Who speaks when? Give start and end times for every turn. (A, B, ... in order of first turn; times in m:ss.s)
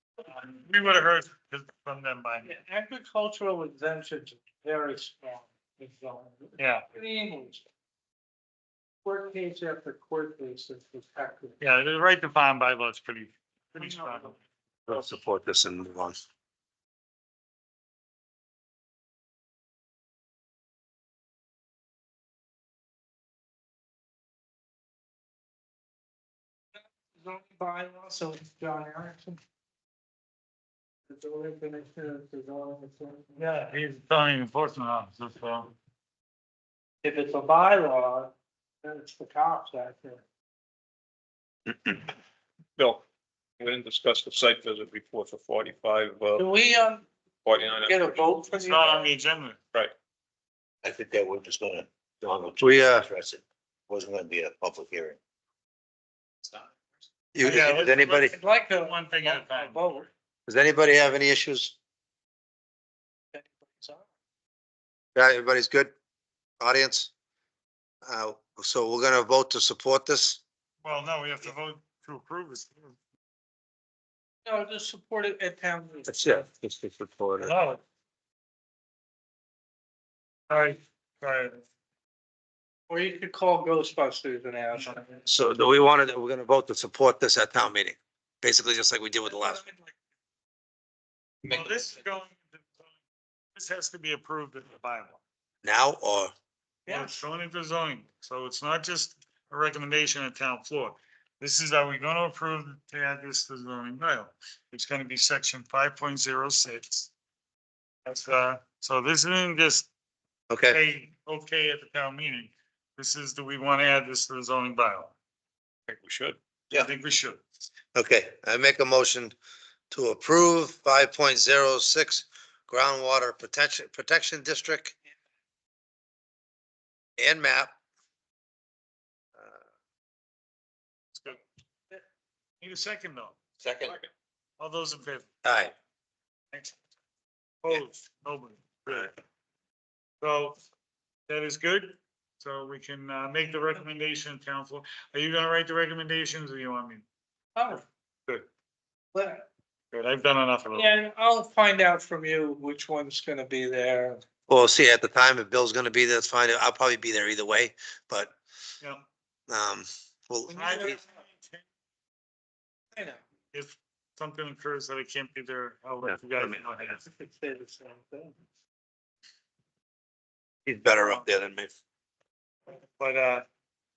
0:00.2-0:02.5 A
0:02.4-0:07.6 B
0:06.6-0:06.8 A
0:09.0-0:11.6 B
0:11.6-0:14.4 A
0:13.7-0:14.3 B
0:14.9-0:16.2 C
0:26.8-0:29.4 B
0:31.1-0:33.4 B
0:33.4-0:35.7 A
0:37.0-0:40.2 B
0:41.7-0:42.0 D
0:42.8-0:43.0 D
0:43.6-0:46.4 D
0:46.4-0:47.1 B
0:47.4-0:48.3 D
0:47.8-0:49.1 B
0:48.6-0:49.6 A
0:50.8-0:55.2 E
0:52.6-0:53.1 C
0:57.3-0:58.3 C
0:57.4-0:59.8 A
0:57.5-1:00.1 B
1:00.5-1:01.7 C
1:03.3-1:04.1 B
1:05.1-1:05.9 C
1:06.6-1:07.1 C
1:08.0-1:10.4 C
1:10.8-1:13.0 A
1:14.4-1:16.4 B
1:16.1-1:17.5 C
1:17.4-1:17.8 A
1:20.5-1:21.6 A
1:22.9-1:25.3 B
1:25.3-1:29.6 C
1:29.3-1:30.0 B
1:31.4-1:32.9 A
1:31.4-1:31.7 C
1:33.6-1:35.2 A
1:35.6-1:36.3 C
1:36.9-1:37.2 B
1:36.9-1:47.1 A
1:48.0-1:49.9 A
1:50.5-1:50.8 C
1:50.7-1:55.1 A
1:55.9-1:56.4 D
1:56.7-1:57.4 A
1:58.0-1:59.4 C
1:59.9-2:05.0 C
2:07.2-2:07.7 C
2:12.6-2:13.4 A
2:13.6-2:13.9 E
2:13.6-2:13.9 C
2:14.6-2:15.3 A
2:15.4-2:15.7 C
2:17.6-2:19.1 A
2:20.2-2:20.6 A
2:21.3-2:27.0 A
2:27.6-2:27.8 B
2:29.1-2:29.5 B
2:29.9-2:30.9 A
2:30.7-2:34.2 B
2:34.5-2:38.3 C
2:38.8-2:39.1 A
2:39.5-2:41.0 C
2:40.5-2:41.6 A
2:40.5-2:41.0 B
2:42.9-2:43.2 B
2:43.5-2:47.0 A
2:46.1-2:46.6 C
2:47.0-2:48.3 B
2:50.6-2:51.7 C
2:53.0-2:53.4 A